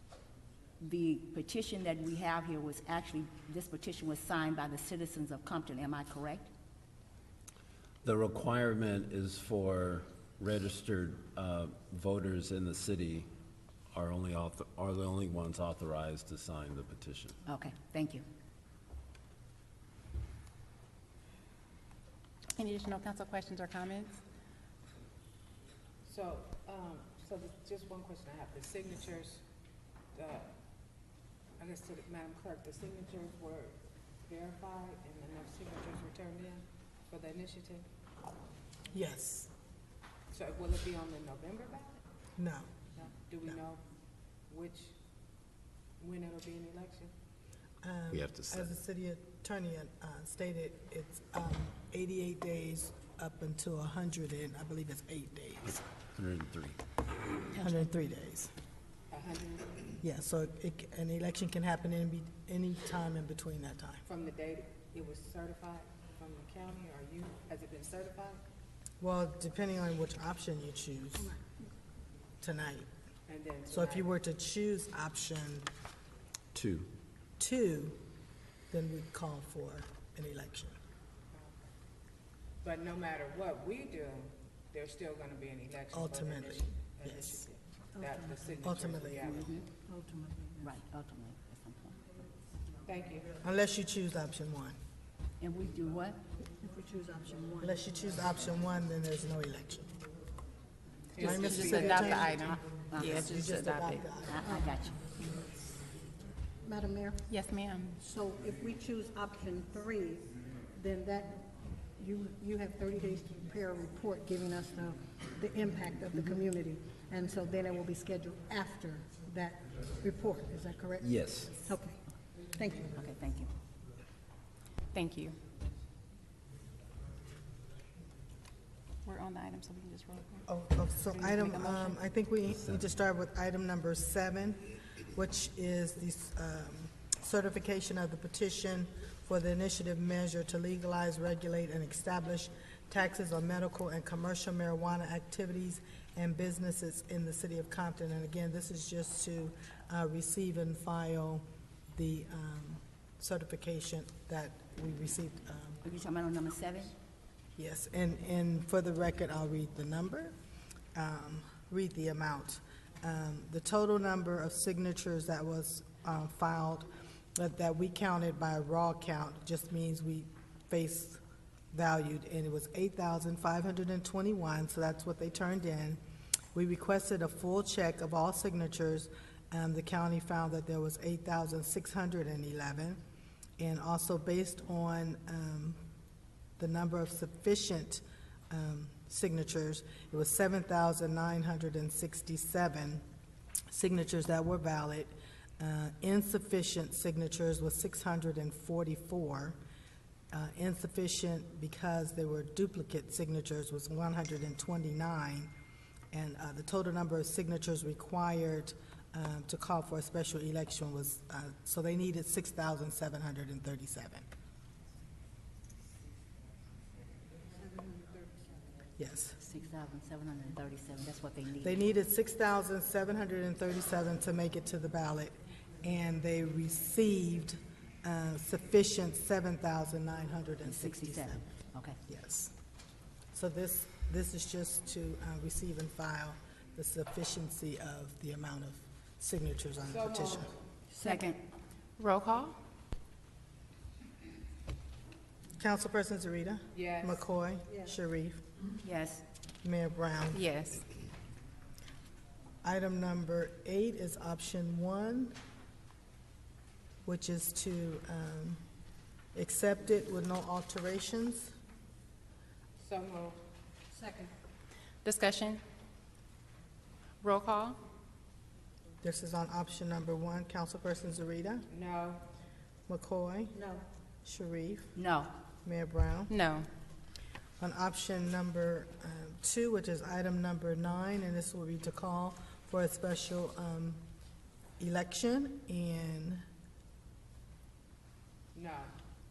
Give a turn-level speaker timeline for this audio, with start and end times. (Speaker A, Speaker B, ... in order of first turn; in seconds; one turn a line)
Speaker A: 0.8-6.5
Speaker B: 8.0-13.3
Speaker B: 13.9-17.4
Speaker A: 17.5-18.2
Speaker C: 22.6-24.1
Speaker D: 26.0-29.4
Speaker D: 30.1-30.5
Speaker D: 31.6-37.9
Speaker E: 38.9-39.5
Speaker D: 40.3-42.0
Speaker E: 42.4-42.7
Speaker D: 42.9-43.8
Speaker D: 44.5-44.9
Speaker D: 46.0-47.1
Speaker E: 47.8-55.8
Speaker B: 56.1-56.8
Speaker E: 57.5-58.5
Speaker D: 59.1-59.8
Speaker E: 60.0-64.0
Speaker D: 64.0-68.4
Speaker E: 69.0-71.3
Speaker E: 72.4-72.9
Speaker D: 73.3-74.1
Speaker E: 73.7-75.7
Speaker B: 76.5-76.9
Speaker E: 77.4-78.0
Speaker E: 78.7-80.8
Speaker D: 82.6-89.5
Speaker E: 85.9-87.4
Speaker E: 88.6-89.4
Speaker A: 89.2-89.6
Speaker F: 89.9-90.7
Speaker A: 90.6-92.2
Speaker D: 92.8-93.3
Speaker E: 93.4-94.8
Speaker A: 95.4-96.2
Speaker F: 96.6-97.8
Speaker E: 97.6-99.9
Speaker D: 101.1-102.3
Speaker E: 101.2-104.4
Speaker C: 101.2-104.0
Speaker A: 102.9-103.4
Speaker A: 104.2-105.0
Speaker F: 104.4-104.9
Speaker F: 106.6-107.2
Speaker C: 107.3-108.0
Speaker F: 108.0-122.0
Speaker B: 121.0-121.5
Speaker F: 122.5-122.9
Speaker A: 122.9-123.5
Speaker C: 124.9-125.4
Speaker C: 129.0-130.4
Speaker E: 130.5-155.8
Speaker C: 131.3-131.8
Speaker A: 155.8-156.9
Speaker E: 157.6-160.3
Speaker E: 160.9-171.2
Speaker E: 171.7-176.0
Speaker E: 176.5-183.0
Speaker E: 183.6-185.8
Speaker E: 186.6-193.0
Speaker E: 193.7-199.6
Speaker E: 200.3-205.5
Speaker E: 206.1-214.2
Speaker F: 217.6-218.4
Speaker E: 219.0-219.3
Speaker A: 219.4-221.8
Speaker E: 221.6-231.4
Speaker A: 230.6-232.0
Speaker E: 232.1-232.5
Speaker E: 233.3-240.5
Speaker D: 239.8-240.5
Speaker A: 241.0-241.4
Speaker C: 241.0-241.3
Speaker C: 242.0-242.6
Speaker E: 245.6-248.4
Speaker D: 246.7-247.2
Speaker A: 248.8-249.2
Speaker E: 249.6-250.4
Speaker C: 250.3-250.8
Speaker E: 252.6-255.3
Speaker E: 257.0-258.6
Speaker E: 259.3-261.5
Speaker D: 262.8-263.4
Speaker F: 263.9-264.3
Speaker C: 265.0-265.6
Speaker C: 267.2-267.8
Speaker E: 269.0-271.7
Speaker D: 271.7-272.2
Speaker E: 272.9-273.6
Speaker F: 273.5-273.8
Speaker E: 274.2-274.9
Speaker A: 274.9-275.3
Speaker E: 275.6-276.3
Speaker C: 276.3-276.7
Speaker E: 277.6-284.0
Speaker E: 284.8-286.4
Speaker D: 288.5-288.9